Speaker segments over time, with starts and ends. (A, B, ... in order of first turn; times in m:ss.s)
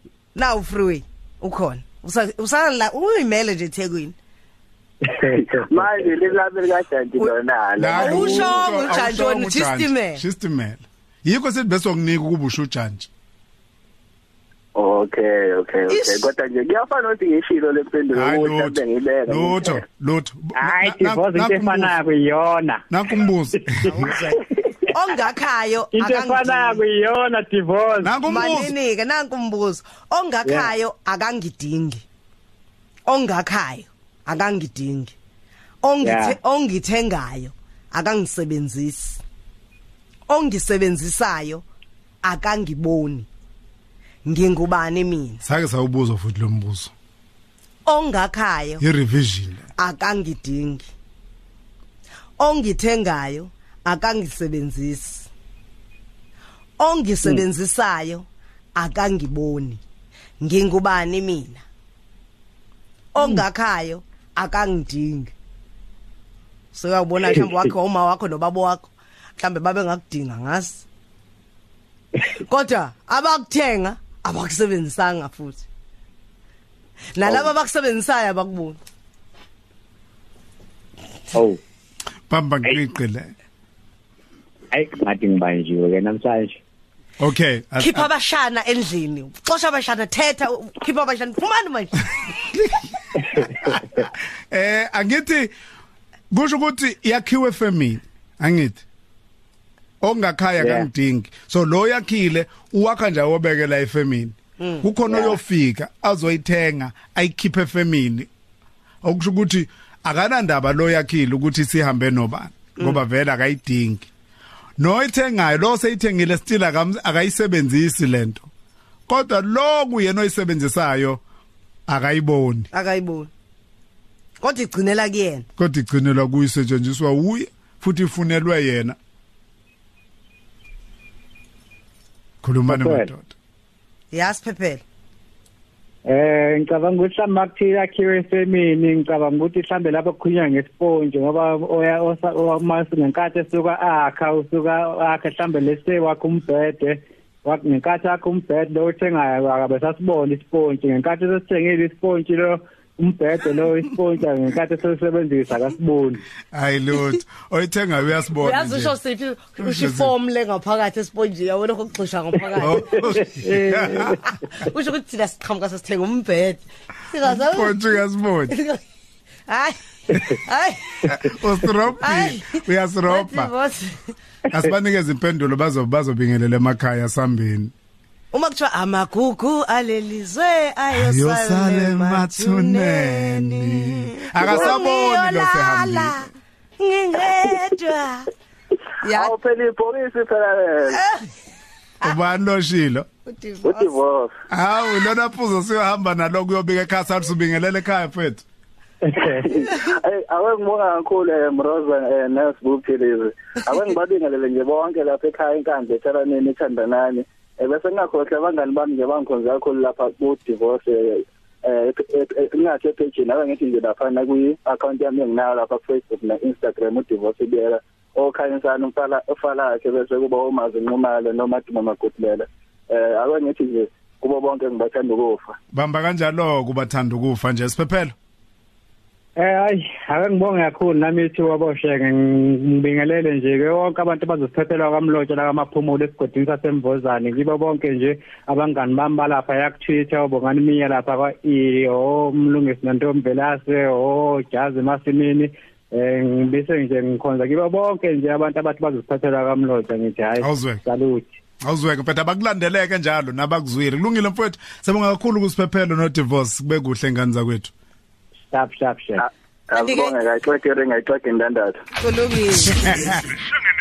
0:00.4-0:04.1 A
0:05.0-0:05.4 B
0:05.2-0:09.1 C
0:07.8-0:13.1 D
0:07.9-0:10.2 A
0:14.8-0:19.8 C
0:15.9-0:16.3 A
0:18.1-0:22.0 D
0:20.6-0:22.8 B
0:22.9-0:23.9 D
0:23.7-0:24.2 B
0:23.8-0:26.8 A
0:25.9-0:28.2 B
0:28.0-0:28.7 D
0:28.3-0:32.0 A
0:30.4-0:30.7 B
0:33.1-0:35.1 A
0:35.8-0:39.2 A
0:36.0-0:36.4 B
0:40.3-0:41.6 A
0:42.2-0:43.3 A
0:44.2-0:45.4 A
0:45.4-0:46.9 D
0:47.9-0:48.8 A
0:48.8-0:49.7 D
0:49.8-0:50.9 A
0:52.4-0:55.3 A
0:56.8-0:59.8 A
1:00.4-1:01.6 A
1:03.1-1:05.3 A
1:06.7-1:10.8 A
1:12.4-1:15.6 A
1:17.1-1:18.8 A
1:21.3-1:21.6 B
1:22.3-1:23.3 D
1:24.7-1:26.6 B
1:27.2-1:28.1 D
1:27.8-1:32.1 A
1:33.2-1:33.7 B
1:33.4-1:35.5 D
1:36.3-1:38.8 D
1:40.0-1:48.3 D
1:40.6-1:40.9 B
1:44.6-1:45.4 A
1:49.0-1:54.1 D
1:54.8-1:58.4 D
1:59.1-2:01.2 D
2:01.9-2:02.7 D
2:02.7-2:03.3 A
2:04.4-2:05.4 A
2:05.6-2:09.0 D
2:12.4-2:13.3 D
2:12.7-2:13.1 B
2:14.1-2:14.8 A
2:16.1-2:36.2 B
2:36.5-2:39.0 D
2:38.4-2:43.0 A
2:39.6-2:40.1 D
2:42.6-2:44.2 D
2:43.2-2:43.7 B
2:43.8-2:47.9 A
2:47.2-2:48.6 D
2:48.5-2:48.8 A
2:49.5-2:51.1 A
2:51.1-2:53.5 D
2:52.0-2:54.1 A
2:54.5-2:57.7 D
2:58.3-3:06.3 A
3:00.9-3:06.3 D
3:04.4-3:04.8 C
3:06.8-3:08.3 A
3:09.0-3:09.3 A
3:09.1-3:11.0 C
3:10.9-3:11.3 A
3:12.0-3:13.1 D
3:13.3-3:13.9 A
3:13.6-3:14.3 C
3:14.5-3:18.4 D
3:19.0-3:19.4 B
3:19.2-3:45.6 C
3:45.7-3:48.1 D
3:49.4-4:11.3 B
4:10.4-4:10.8 D
4:11.6-4:17.7 D
4:18.5-4:19.2 B
4:19.2-4:21.8 C
4:19.7-4:20.2 A
4:22.0-4:22.9 A